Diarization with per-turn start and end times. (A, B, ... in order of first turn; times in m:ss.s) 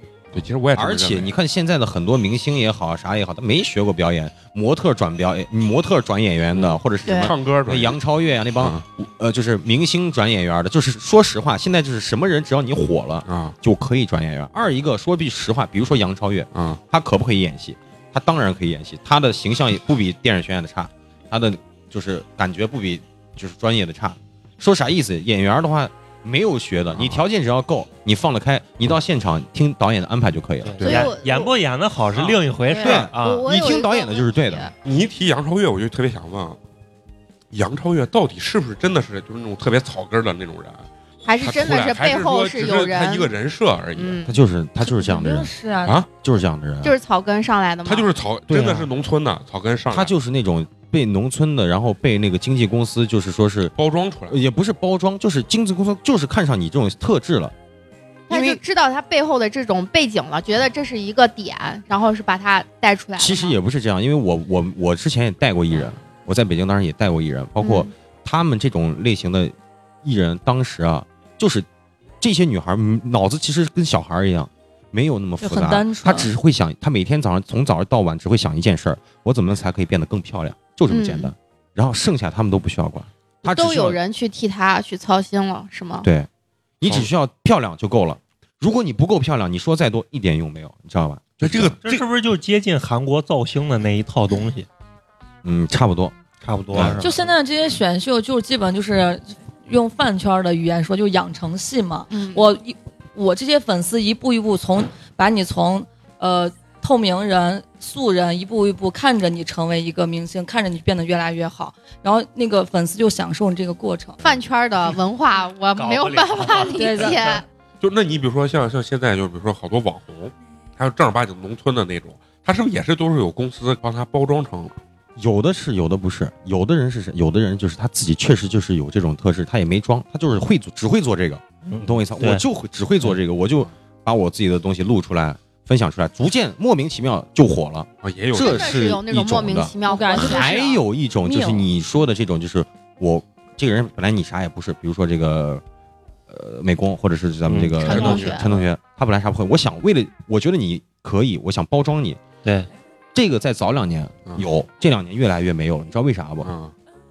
0:00.3-0:01.3 A
0:00.7-0:31.1 B
0:06.5-0:08.0 A
0:07.1-0:07.3 C
0:13.3-0:13.6 A
0:16.6-0:16.8 A
0:26.9-0:27.2 A
0:30.6-0:33.4 D
0:30.8-0:31.5 C
0:32.7-0:34.7 C
0:32.8-0:34.7 B
0:34.8-0:36.6 A
0:37.5-0:40.9 A
0:41.2-0:43.3 C
0:41.4-0:44.2 A
0:44.0-0:44.3 C
0:44.2-0:45.5 B
0:44.8-0:46.0 E
0:46.1-0:47.0 B
0:46.8-0:48.1 C
0:47.8-0:50.1 A
0:48.5-0:48.8 B
0:49.9-0:53.8 B
0:53.8-0:54.4 A
0:54.3-0:57.5 B
0:58.3-1:03.6 C
0:58.3-0:58.6 B
1:03.2-1:11.7 B
1:07.6-1:07.9 C
1:12.2-1:24.0 B
1:15.4-1:16.3 E
1:20.9-1:21.3 C
1:23.4-1:26.1 C
1:26.0-1:26.3 B
1:26.8-1:31.8 B
1:31.4-1:32.0 A
1:31.8-1:34.7 D
1:35.4-1:36.2 B
1:36.4-1:37.3 D
1:36.7-1:37.0 B
1:37.0-1:54.2 E
1:42.1-1:42.4 C
1:54.2-1:57.4 C
1:55.8-1:57.4 D
1:56.6-1:57.4 E
1:57.8-2:04.7 A
2:05.2-2:25.6 B
2:11.7-2:12.4 D
2:18.0-2:18.8 A
2:18.3-2:20.8 C
2:19.8-2:20.7 E
2:21.2-2:21.7 E
2:26.3-2:32.2 B
2:27.5-2:28.0 D
2:27.8-2:28.5 C
2:27.8-2:28.4 A
2:33.1-2:36.5 B
2:36.4-2:36.7 A